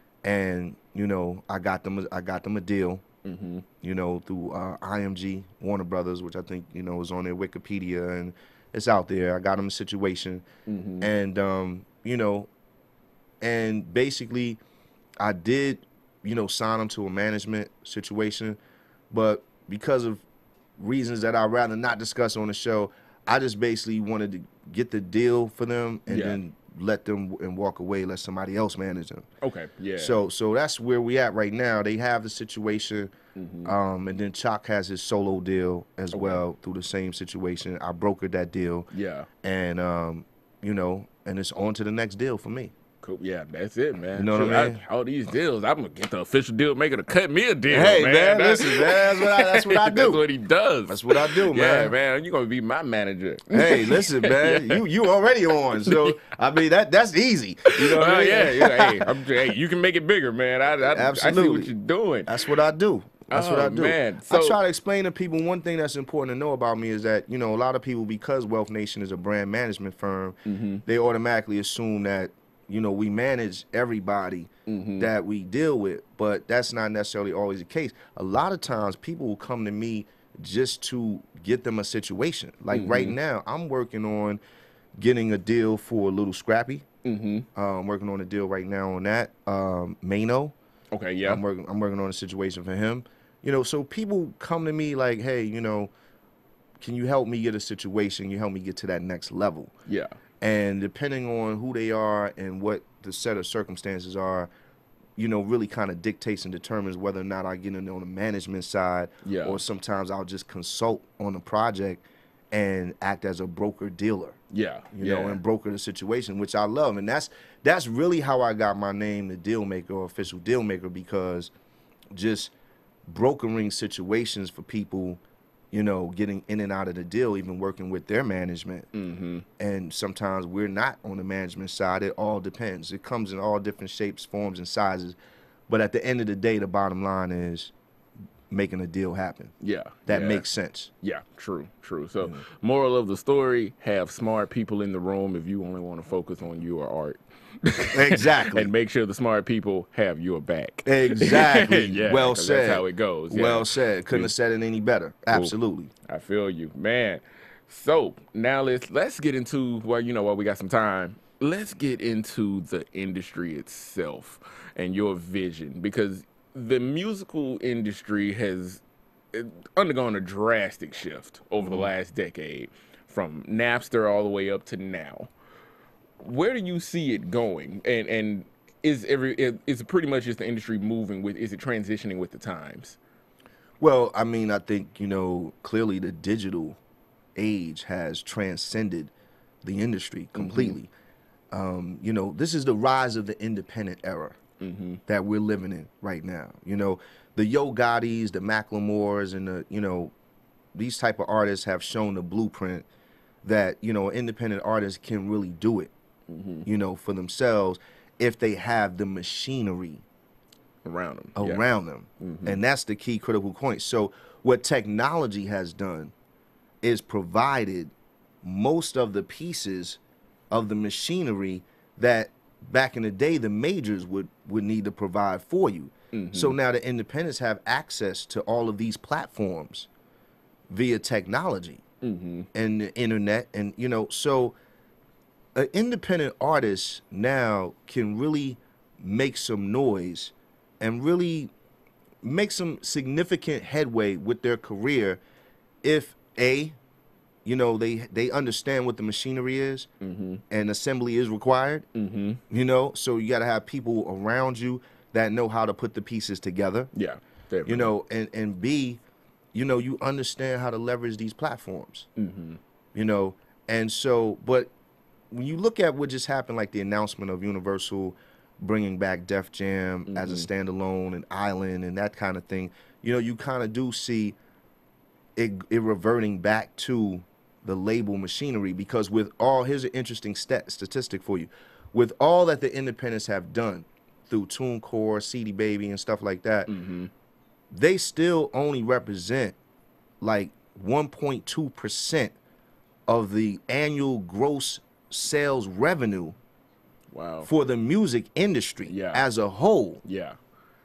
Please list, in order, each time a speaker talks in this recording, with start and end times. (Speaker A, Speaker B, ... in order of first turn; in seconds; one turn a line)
Speaker A: 0.2-3.0
Speaker B: 3.2-3.6
Speaker A: 3.8-10.4
Speaker B: 10.7-11.1
Speaker A: 11.0-12.5
Speaker A: 13.4-14.6
Speaker A: 15.2-18.6
Speaker A: 19.1-20.2
Speaker A: 20.8-29.3
Speaker B: 26.1-26.4
Speaker B: 29.4-30.2
Speaker A: 30.0-33.1
Speaker B: 33.4-33.7
Speaker A: 33.6-38.9
Speaker B: 36.1-36.4
Speaker B: 38.9-39.3
Speaker A: 39.4-42.7
Speaker B: 43.0-54.8
Speaker A: 44.1-44.8
Speaker A: 47.7-50.2
Speaker A: 50.9-51.9
Speaker A: 53.5-59.1
Speaker B: 55.8-56.2
Speaker B: 57.7-62.4
Speaker A: 60.9-61.7
Speaker A: 62.3-84.4
Speaker B: 63.3-64.6
Speaker B: 70.5-70.8
Speaker B: 74.7-75.1
Speaker B: 82.7-83.2
Speaker A: 85.0-86.9
Speaker B: 87.0-87.5
Speaker A: 87.5-90.6
Speaker B: 90.9-91.4
Speaker A: 91.2-95.9
Speaker A: 96.8-99.7
Speaker B: 99.9-100.2
Speaker A: 100.4-104.5
Speaker A: 105.2-114.4
Speaker B: 109.2-109.6
Speaker B: 114.5-115.4
Speaker A: 114.9-121.5
Speaker A: 122.1-122.5
Speaker A: 123.1-125.2
Speaker A: 125.7-128.9
Speaker B: 128.9-129.5
Speaker A: 129.6-135.2
Speaker A: 135.7-137.7
Speaker A: 138.5-139.5
Speaker B: 139.6-140.4
Speaker A: 140.1-140.9
Speaker B: 141.0-154.3
Speaker A: 147.9-148.7
Speaker A: 150.8-155.9
Speaker B: 156.1-168.8
Speaker B: 169.3-175.3
Speaker A: 171.6-171.9
Speaker B: 176.2-183.0
Speaker A: 183.8-186.8
Speaker A: 187.4-189.1
Speaker A: 189.6-190.9
Speaker B: 190.3-190.8
Speaker A: 191.5-194.4
Speaker B: 194.6-195.0
Speaker A: 195.1-200.1
Speaker A: 200.7-202.9
Speaker A: 203.4-205.9
Speaker B: 206.3-206.7
Speaker A: 206.7-210.0
Speaker B: 210.8-211.6
Speaker A: 211.4-216.1
Speaker B: 212.2-212.6
Speaker A: 216.8-220.0
Speaker A: 220.5-229.9
Speaker B: 226.1-226.6
Speaker A: 230.7-231.8
Speaker B: 232.0-232.5
Speaker A: 232.5-234.6
Speaker A: 235.6-241.5
Speaker A: 242.2-245.2
Speaker A: 245.8-246.8
Speaker A: 247.4-249.9
Speaker B: 250.0-250.4
Speaker A: 250.5-251.9
Speaker B: 251.9-252.4
Speaker A: 252.5-256.9
Speaker B: 256.9-257.9
Speaker A: 257.7-259.0
Speaker A: 259.5-262.1
Speaker B: 262.2-262.6
Speaker A: 262.9-264.7
Speaker A: 265.3-274.4
Speaker B: 270.1-270.5
Speaker A: 275.4-286.7
Speaker B: 286.7-287.1
Speaker A: 287.7-289.6
Speaker A: 290.2-292.3
Speaker A: 293.1-296.4
Speaker B: 297.1-297.5
Speaker A: 297.4-300.0
Speaker B: 298.9-299.2
Speaker B: 300.0-300.4